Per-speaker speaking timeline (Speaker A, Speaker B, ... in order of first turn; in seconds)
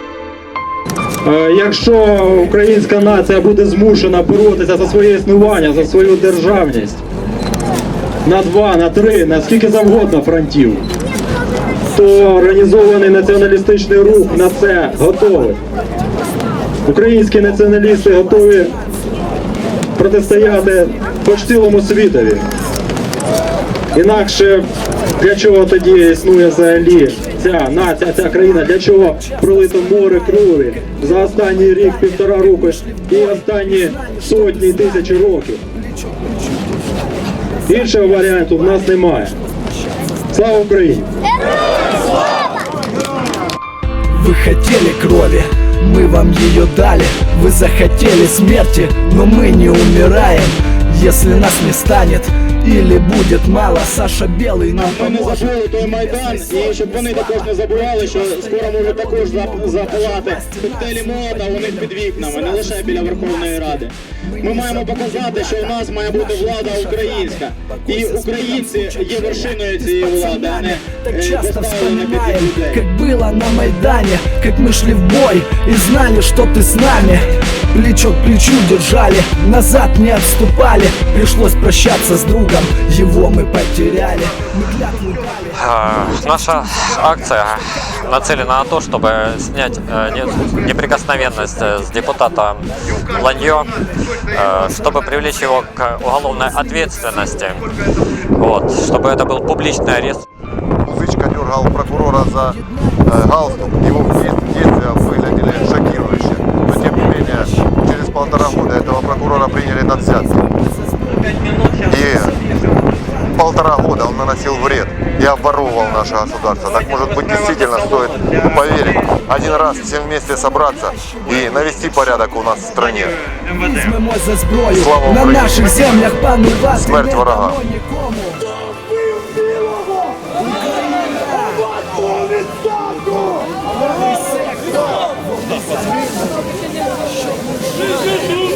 Speaker A: 1.2-7.0, 8.2-10.8, 11.9-15.6, 16.8-18.7, 20.0-22.4, 23.9-35.6, 37.7-39.4, 40.3-41.1
Speaker B: 44.1-55.5, 56.1-63.8, 64.3-85.4, 123.5-128.5, 129.9-134.7, 135.5-136.0
Speaker C: 54.9-72.8
Speaker D: 85.5-97.7, 98.3-100.2
Speaker E: 100.8-110.4, 111.8-112.4, 113.3-123.2, 124.7-126.0, 126.7-127.6